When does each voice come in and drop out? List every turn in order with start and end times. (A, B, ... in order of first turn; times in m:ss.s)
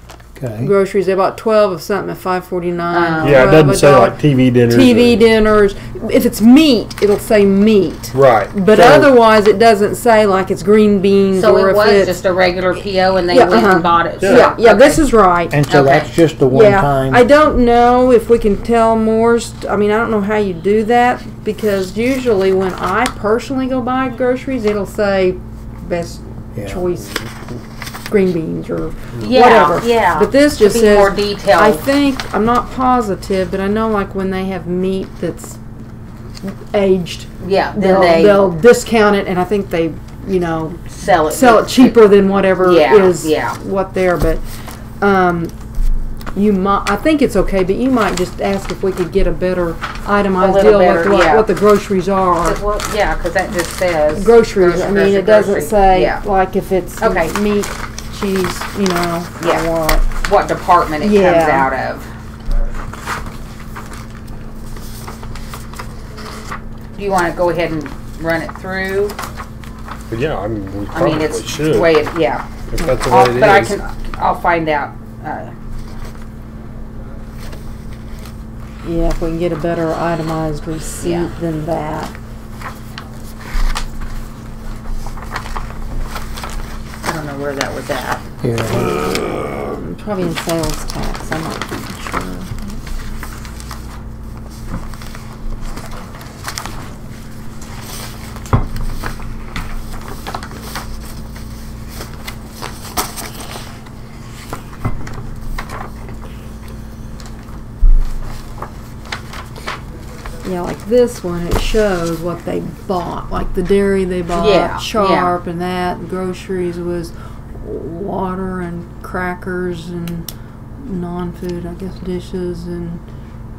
0:00.4-0:00.7 A
0:00.6-0:12.2 B
0:02.9-0:03.5 C
0:03.2-0:05.2 D
0:08.1-0:09.1 D
0:11.3-0:15.0 C
0:13.3-0:15.6 B
0:14.2-0:14.5 D
0:15.5-0:17.2 A
0:15.7-0:16.2 C
0:16.5-0:27.3 B
0:26.6-0:26.9 A
0:28.1-0:35.6 B
0:29.2-0:31.8 C
0:36.4-0:44.4 B
0:37.4-0:38.4 C
0:40.9-0:43.6 C
0:45.0-0:45.5 B
0:46.4-0:52.6 B
0:50.4-0:51.5 C
0:52.4-0:56.2 C
0:54.1-1:00.1 B
0:57.0-0:57.3 C
0:59.4-0:59.6 C
1:00.2-1:02.1 C
1:01.0-1:01.7 B
1:07.0-1:09.2 C
1:10.1-1:12.1 D
1:10.9-1:15.5 C
1:12.7-1:13.8 D
1:18.8-1:22.1 B
1:21.0-1:21.3 C
1:27.0-1:28.2 C
1:28.4-1:28.9 A
1:28.7-1:32.5 B
1:50.4-2:03.0 B
1:54.3-1:55.4 C